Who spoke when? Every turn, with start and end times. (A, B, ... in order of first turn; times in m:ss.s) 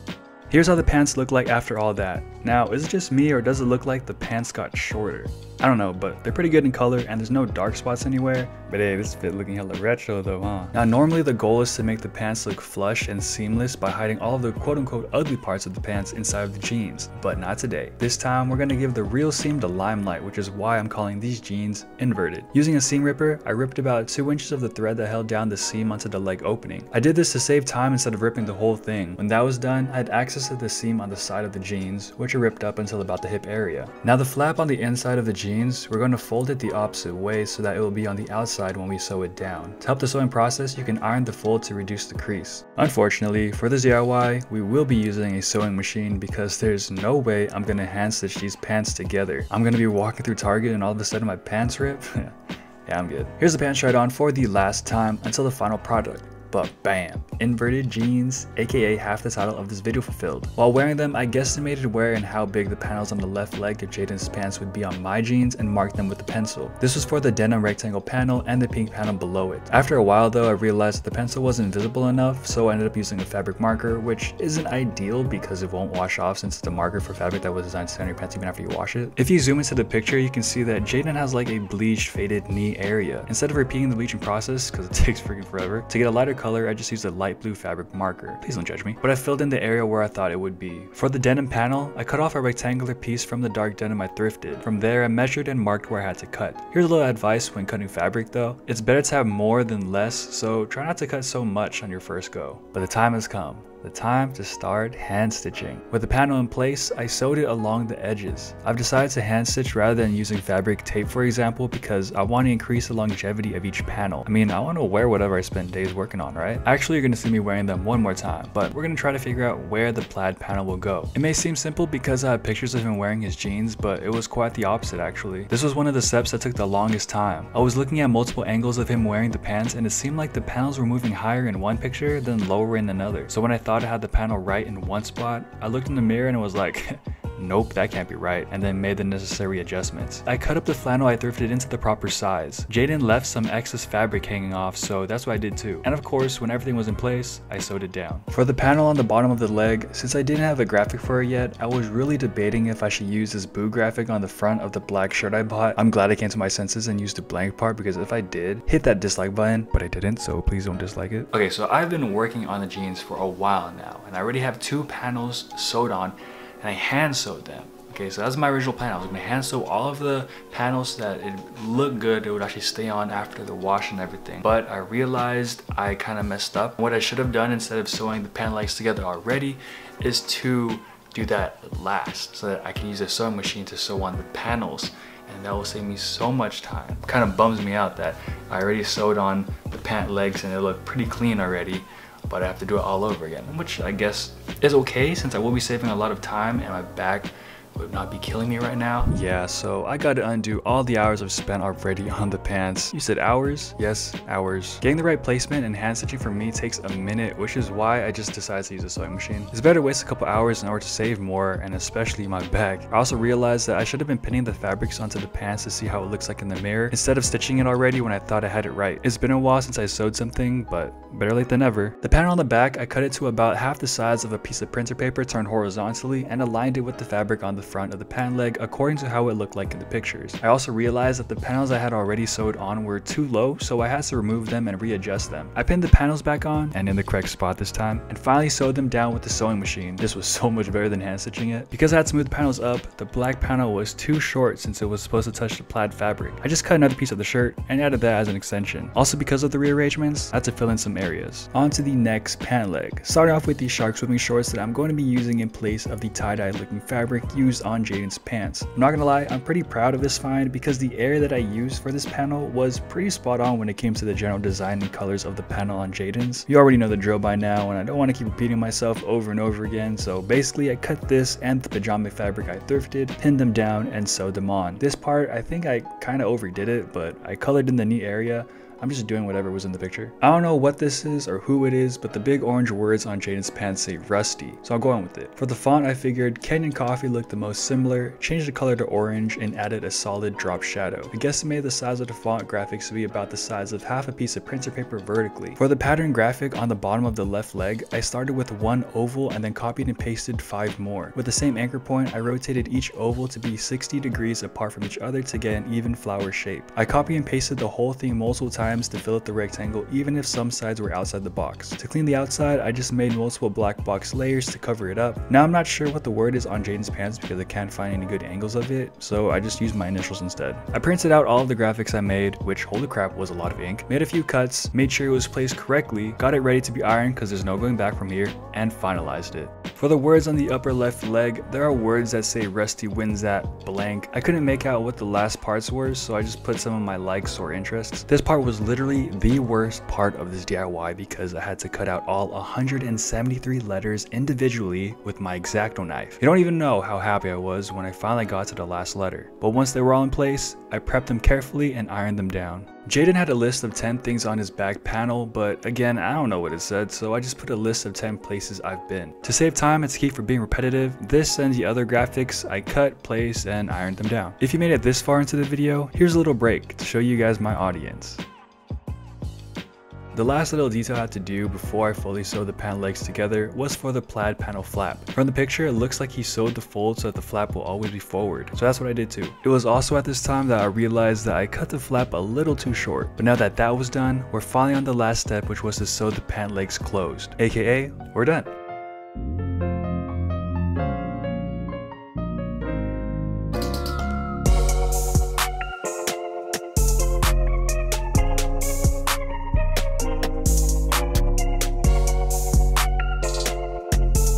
0:00.5-6:08.2 A
6:10.1-6:28.5 A